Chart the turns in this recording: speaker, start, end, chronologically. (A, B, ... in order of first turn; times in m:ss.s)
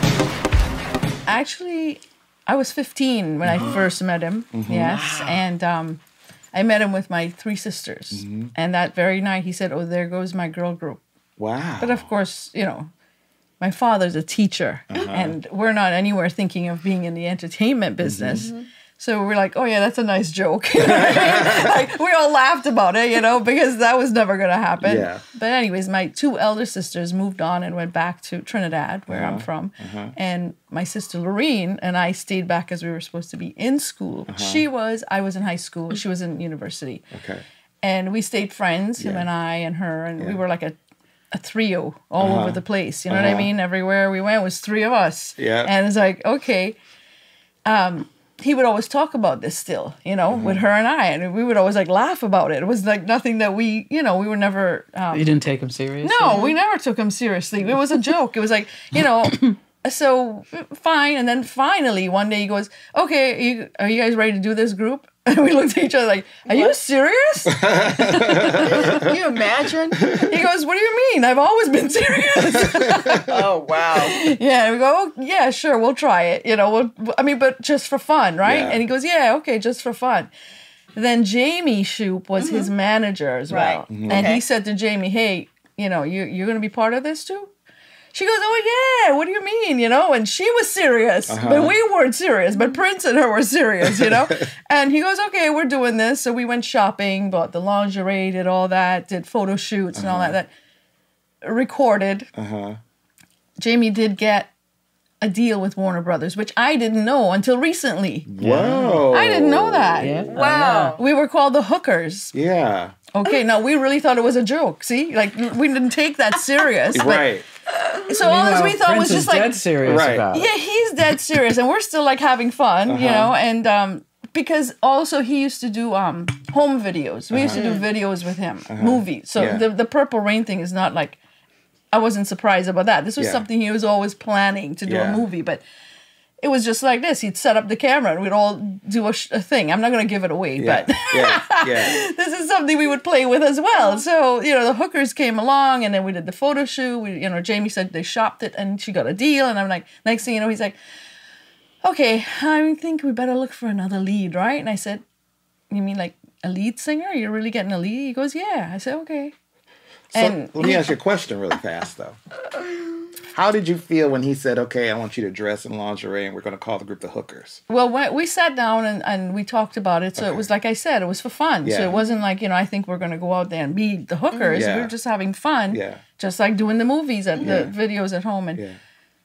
0:01.2-0:06.0 A
0:03.4-0:03.8 B
0:04.5-0:05.1 B
0:06.5-0:11.0 A
0:08.1-0:08.5 B
0:11.4-0:12.1 B
0:11.8-0:12.9 A
0:13.6-0:37.0 A
0:14.9-0:15.4 B
0:18.0-0:18.5 B
0:18.4-0:18.6 C
0:21.0-0:21.6 B
0:24.8-0:25.2 B
0:29.1-0:30.1 B
0:34.3-0:34.6 B
0:37.1-0:37.4 B
0:37.8-0:40.8 A
0:39.0-0:39.3 B
0:41.3-0:46.8 A
0:42.2-0:43.5 B
0:45.4-0:45.7 B
0:47.7-0:55.4 A
0:50.3-0:50.7 B
0:55.1-0:56.4 D
0:56.0-1:09.0 A
0:56.3-0:56.6 C
1:06.5-1:06.7 C
1:07.6-1:09.0 B
1:08.7-1:10.1 C
1:10.2-1:13.3 A
1:13.3-1:14.2 C
1:13.9-1:20.3 A
1:18.4-1:18.8 B
1:21.0-1:27.5 A
1:22.4-1:22.7 C
1:23.5-1:24.4 C
1:23.9-1:24.3 B
1:28.1-1:40.5 A
1:31.3-1:31.8 B
1:40.0-1:40.4 B
1:41.4-1:42.3 A
1:42.3-1:42.8 B
1:43.6-1:44.5 A
1:45.2-1:48.3 A
1:48.3-1:50.1 B
1:48.4-1:49.1 D
1:49.1-1:52.3 A
1:50.0-1:51.0 D
1:50.3-1:51.0 C
1:52.3-1:53.0 B
1:53.1-1:57.3 A
1:56.9-1:57.4 B
1:58.1-1:59.6 A
1:58.2-2:00.5 D
1:59.8-2:00.3 B
2:00.3-2:11.2 A
2:02.9-2:03.3 B
2:07.3-2:07.6 B
2:07.5-2:07.9 C
2:08.7-2:09.7 B
2:11.9-2:15.6 A
2:13.2-2:13.4 B
2:14.8-2:15.2 B
2:16.4-2:30.8 A
2:20.6-2:22.0 B
2:31.8-2:35.0 A
2:35.7-2:39.3 A
2:40.1-2:42.2 B
2:40.1-2:41.0 A
2:43.3-2:47.6 B
2:47.7-2:58.6 A
2:50.2-2:50.5 B
2:51.6-2:52.0 B
2:54.5-2:54.9 B
2:55.7-2:56.0 B
2:57.4-2:57.7 B